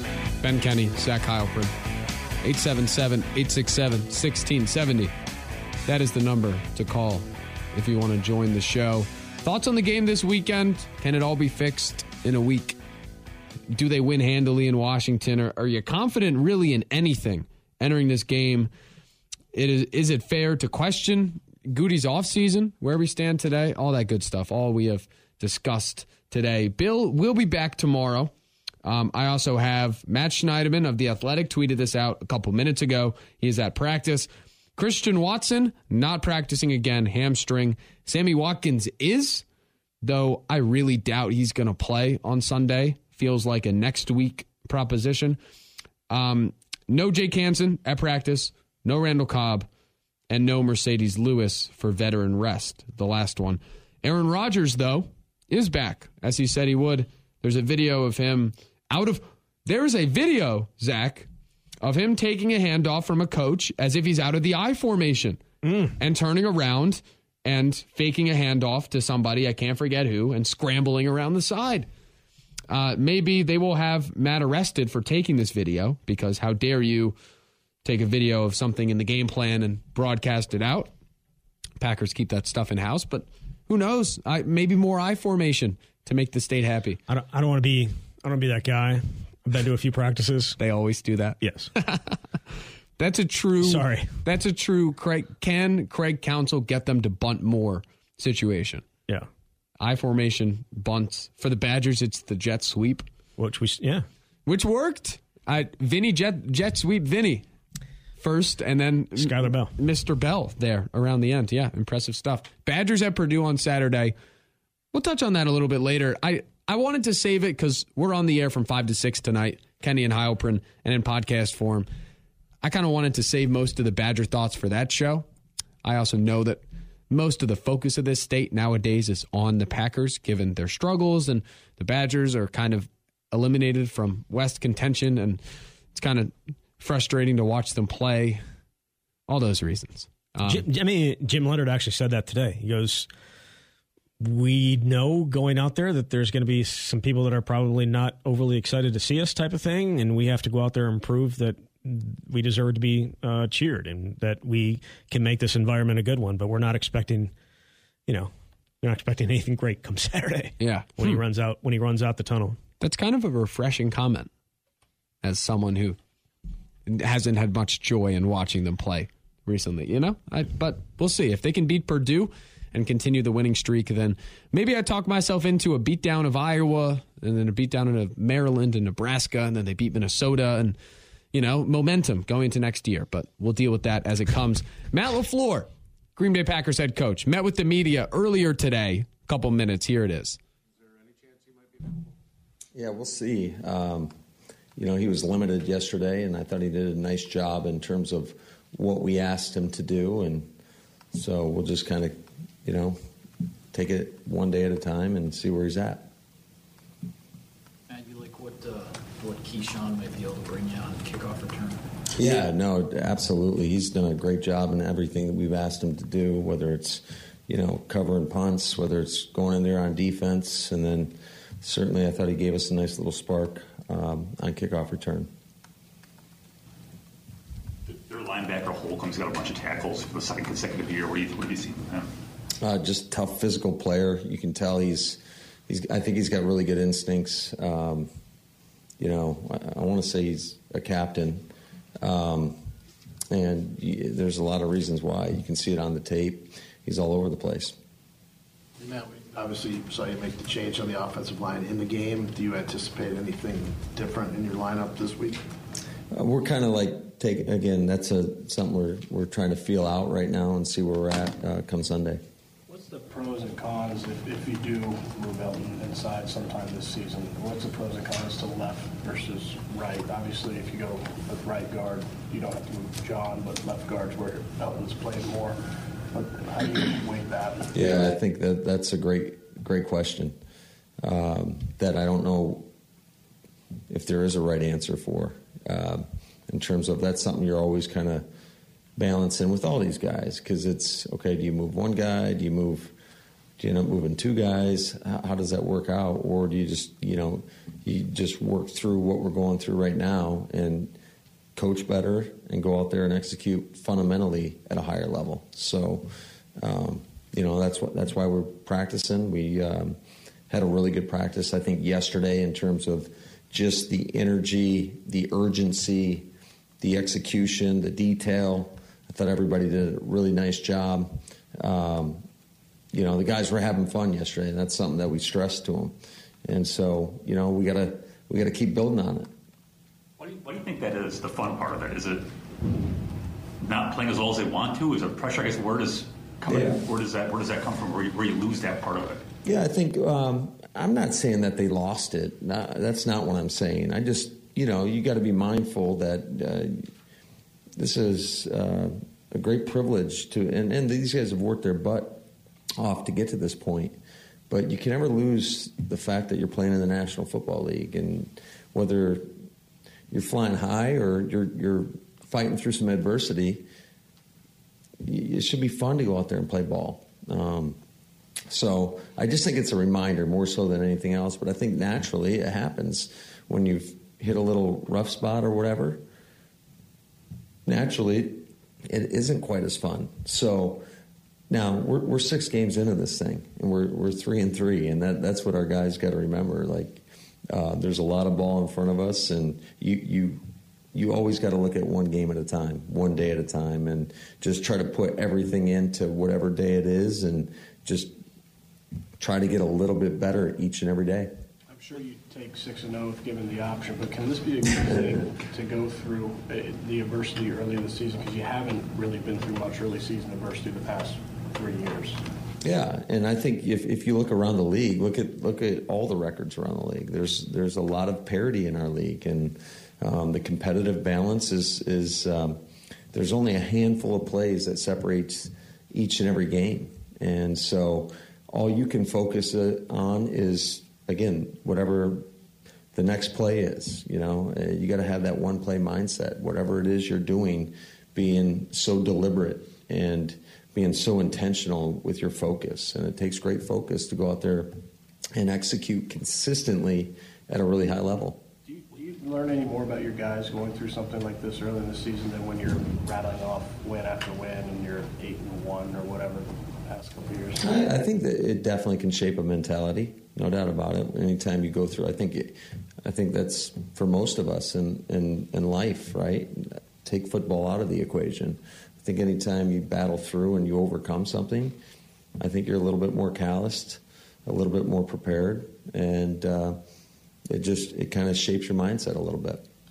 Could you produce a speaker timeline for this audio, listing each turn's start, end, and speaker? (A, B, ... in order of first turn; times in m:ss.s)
0:00.4-0:01.7 A
0:02.4-0:05.1 A
0:05.8-0:12.8 A
0:13.7-0:18.7 A
0:19.5-0:28.3 A
0:28.8-0:39.4 A
0:40.0-0:45.4 A
0:46.1-0:49.7 A
0:50.3-1:01.3 A
1:01.8-1:05.4 A
1:05.6-1:05.9 B
1:06.0-1:11.9 A
1:12.7-1:17.2 A
1:17.8-1:20.9 A
1:21.8-1:27.0 A
1:27.1-1:30.6 B
1:30.6-1:32.2 A
1:31.4-1:31.7 B
1:33.0-1:38.8 A
1:33.6-1:34.2 B
1:39.8-1:43.0 A
1:43.4-1:44.0 B
1:44.4-1:47.4 A
1:48.2-1:54.1 A
1:49.2-1:49.7 B
1:54.9-2:01.9 A
2:02.6-2:05.2 A
2:05.8-2:15.4 A
2:15.9-2:18.4 A
2:19.3-2:20.6 A
2:20.4-2:23.1 B
2:24.2-2:37.3 B
2:38.8-2:42.6 B
2:40.6-2:41.2 A
2:42.8-2:44.3 A
2:45.2-2:46.0 A
2:46.8-3:00.8 A
3:01.3-3:10.4 A
3:12.7-3:14.1 C
3:14.8-3:20.5 C
3:21.1-3:23.0 C
3:23.7-3:26.1 C
3:27.9-3:31.8 D
3:32.2-3:45.3 C
3:47.9-3:52.1 E
3:52.6-3:58.1 C
3:59.0-4:01.5 C
4:02.0-4:02.6 C
4:03.3-4:07.8 C
4:08.8-4:15.4 F
4:16.1-4:22.2 C
4:22.7-4:35.6 G
4:36.1-4:38.0 G
4:37.7-4:40.4 C
4:41.0-4:42.7 C
4:43.9-4:48.2 C
4:49.0-4:52.9 C
4:53.6-5:00.9 C
5:01.6-5:10.0 C
5:10.5-5:16.3 C
5:16.8-5:22.2 C
5:22.9-5:29.3 C
5:30.2-5:32.2 E
5:33.6-5:39.2 E
5:36.5-5:36.8 C
5:39.4-5:46.9 C
5:47.8-5:54.0 C
5:54.5-5:59.3 C
6:00.1-6:03.6 C
6:05.0-6:07.8 C
6:08.5-6:16.0 C
6:17.6-6:20.8 C
6:21.5-6:30.4 C
6:30.9-6:38.1 C
6:39.2-6:41.3 C
6:41.7-6:52.2 G
6:52.6-7:02.6 C
7:03.1-7:12.2 C
7:12.9-7:24.8 C
7:25.3-7:28.4 C
7:28.6-7:37.7 G
7:37.6-7:51.8 C
7:52.4-7:56.8 C
7:57.5-7:59.6 C